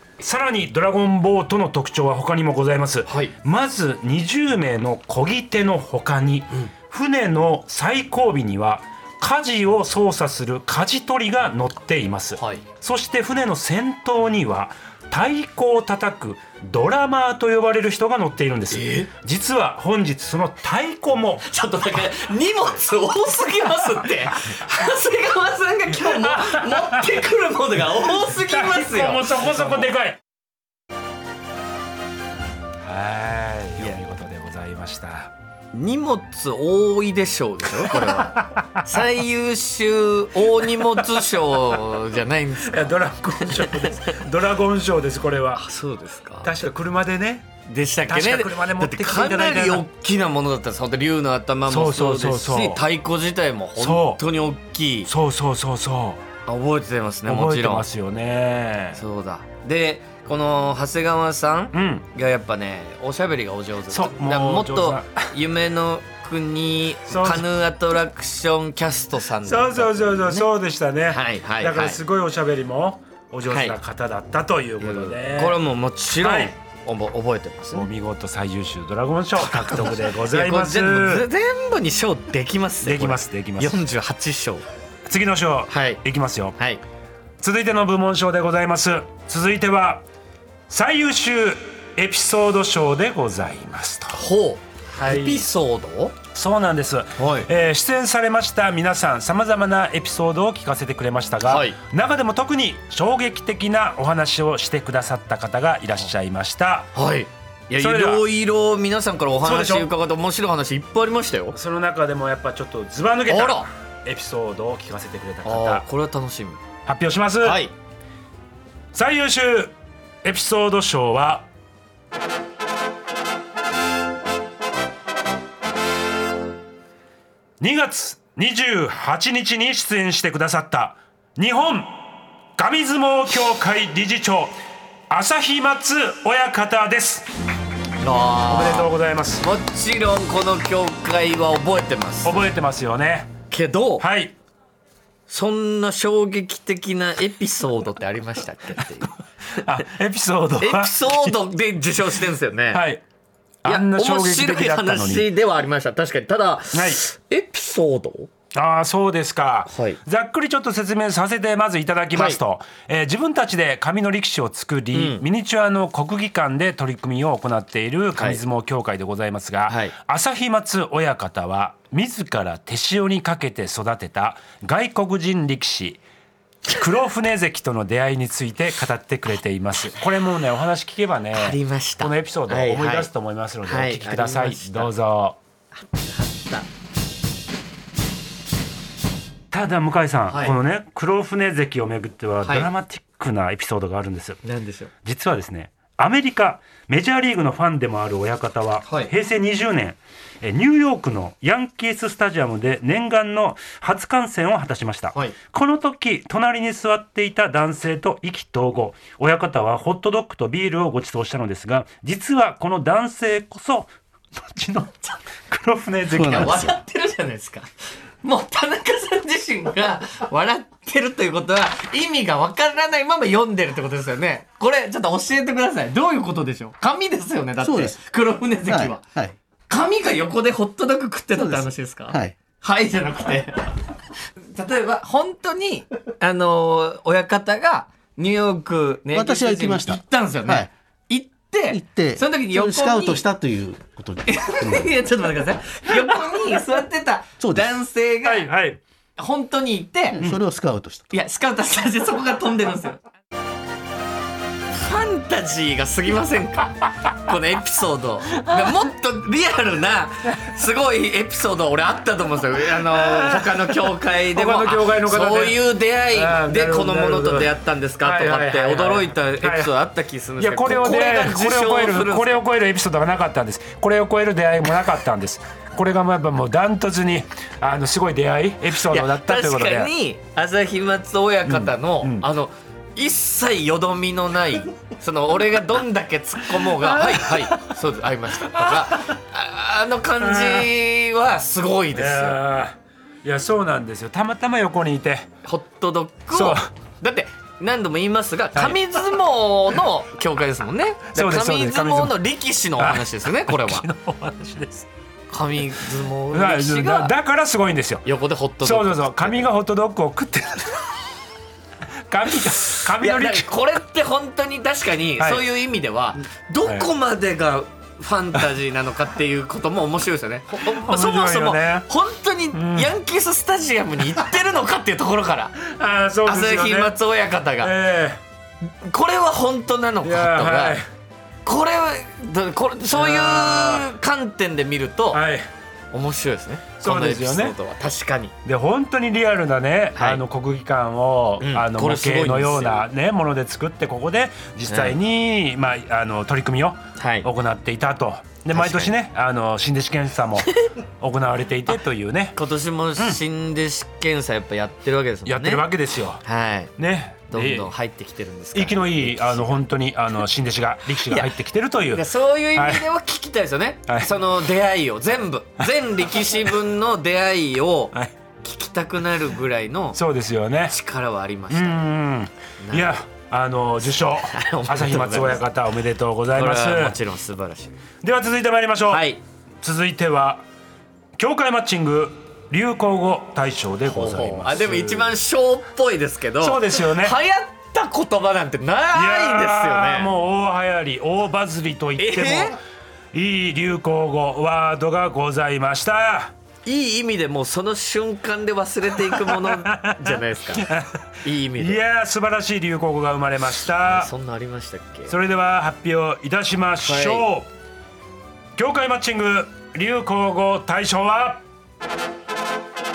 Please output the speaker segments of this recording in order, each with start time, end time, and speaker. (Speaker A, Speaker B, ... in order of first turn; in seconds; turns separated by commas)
Speaker A: 0.2-21.5, Speaker B: 3.1-3.3, Speaker B: 12.4-12.6, Speaker B: 18.7-19.1, Speaker B: 21.5-29.9, Speaker A: 25.9-27.2, Speaker A: 27.9-30.2, Speaker A: 32.8-35.3, Speaker B: 35.7-42.9, Speaker A: 37.8-39.1, Speaker A: 40.8-41.2, Speaker A: 42.6-45.6, Speaker B: 43.5-44.2, Speaker B: 45.6-46.5, Speaker A: 46.4-47.5, Speaker B: 47.7-55.1, Speaker A: 48.1-49.9, Speaker A: 51.7-52.8, Speaker A: 53.8-54.2, Speaker A: 55.1-56.2, Speaker B: 56.5-57.9, Speaker A: 57.3-59.0, Speaker B: 58.9-70.5, Speaker A: 61.7-62.1, Speaker A: 63.9-65.3, Speaker A: 67.1-67.5, Speaker A: 69.4-75.6, Speaker B: 71.1-72.0, Speaker B: 73.5-73.8, Speaker B: 74.8-77.9, Speaker A: 76.2-76.5, Speaker A: 77.7-81.3, Speaker B: 79.4-84.7, Speaker A: 82.8-83.8, Speaker A: 85.1-86.6, Speaker B: 85.7-86.0, Speaker A: 87.4-90.0, Speaker A: 90.7-94.2, Speaker B: 94.1-96.2, Speaker A: 95.0-95.5, Speaker A: 96.3-106.9, Speaker B: 97.2-97.5, Speaker B: 101.5-101.8, Speaker B: 107.0-111.6, Speaker A: 107.8-108.2, Speaker A: 109.4-109.9, Speaker A: 111.5-115.9, Speaker B: 113.3-113.7, Speaker B: 115.5-116.6, Speaker A: 116.9-117.6, Speaker B: 117.4-117.7, Speaker A: 118.9-119.7, Speaker A: 120.2-121.5, Speaker A: 127.6-134.6, Speaker A: 135.1-137.3, Speaker B: 138.0-142.4, Speaker A: 138.5-139.5, Speaker A: 142.2-143.3, Speaker B: 143.5-144.1, Speaker A: 144.0-144.3, Speaker B: 145.3-149.8, Speaker A: 149.6-151.4, Speaker B: 150.6-152.9, Speaker A: 152.7-153.0, Speaker A: 153.6-155.3, Speaker B: 153.7-158.3, Speaker A: 156.7-157.0, Speaker A: 158.5-176.0, Speaker B: 159.7-160.0, Speaker B: 162.2-162.4, Speaker B: 164.9-165.2, Speaker B: 168.2-168.4, Speaker B: 169.7-169.9, Speaker A: 176.7-185.4, Speaker B: 181.3-183.1, Speaker B: 183.7-184.9, Speaker B: 185.8-186.7, Speaker A: 189.5-194.4, Speaker B: 190.3-190.6, Speaker B: 192.4-192.7, Speaker B: 194.4-194.9, Speaker A: 195.1-216.8, Speaker B: 216.2-217.7, Speaker B: 218.2-229.0, Speaker C: 227.6-228.0, Speaker C: 228.7-229.4, Speaker B: 229.7-233.7, Speaker C: 231.3-232.3, Speaker B: 234.5-243.2, Speaker C: 239.1-240.7, Speaker C: 241.7-244.9, Speaker B: 244.3-248.5, Speaker C: 247.4-247.7, Speaker A: 248.2-248.8, Speaker B: 249.2-250.2, Speaker C: 250.2-251.1, Speaker B: 251.1-253.0, Speaker B: 254.7-272.4, Speaker A: 262.9-269.7, Speaker A: 270.4-279.9, Speaker B: 278.9-292.4, Speaker A: 281.5-282.3, Speaker A: 286.8-287.7, Speaker A: 288.5-289.1, Speaker A: 290.2-290.7, Speaker A: 291.9-295.3, Speaker B: 295.4-303.9, Speaker A: 296.3-296.7, Speaker A: 298.6-298.8, Speaker A: 301.1-302.2, Speaker A: 302.8-304.9, Speaker B: 305.3-307.1, Speaker A: 306.3-308.1, Speaker B: 308.1-309.5, Speaker A: 308.6-310.8, Speaker A: 312.1-313.5, Speaker B: 312.7-325.6, Speaker A: 315.2-315.4, Speaker A: 316.7-316.9, Speaker A: 320.6-321.9, Speaker A: 322.5-322.9, Speaker A: 325.6-326.9, Speaker B: 326.2-327.7, Speaker A: 327.6-328.2, Speaker B: 328.8-330.8, Speaker A: 330.0-330.9, Speaker B: 331.4-335.2, Speaker A: 332.9-333.9, Speaker A: 335.1-335.5, Speaker B: 335.9-338.3, Speaker A: 336.8-337.6, Speaker A: 338.4-352.4, Speaker B: 340.0-340.2, Speaker B: 341.4-342.8, Speaker B: 344.7-345.0, Speaker B: 347.0-347.3, Speaker B: 348.5-348.9, Speaker B: 352.4-355.7, Speaker A: 355.3-356.2, Speaker B: 356.2-356.7, Speaker A: 356.8-357.7, Speaker B: 357.3-359.6, Speaker A: 358.5-362.9, Speaker B: 361.1-361.4, Speaker B: 361.9-370.0, Speaker A: 363.9-364.1, Speaker A: 369.9-370.8, Speaker B: 370.7-371.9, Speaker A: 371.5-377.0, Speaker B: 372.6-373.0, Speaker B: 374.1-375.4, Speaker B: 376.4-377.7, Speaker A: 378.0-380.4, Speaker B: 378.9-379.2, Speaker A: 381.2-385.2, Speaker B: 383.9-390.1, Speaker A: 386.4-387.2, Speaker A: 388.9-392.6, Speaker B: 392.0-392.6, Speaker A: 393.1-396.3, Speaker B: 396.6-400.7, Speaker A: 399.0-404.1, Speaker B: 401.2-401.8, Speaker B: 403.8-405.2, Speaker A: 405.1-407.5, Speaker B: 406.8-407.3, Speaker A: 408.6-411.4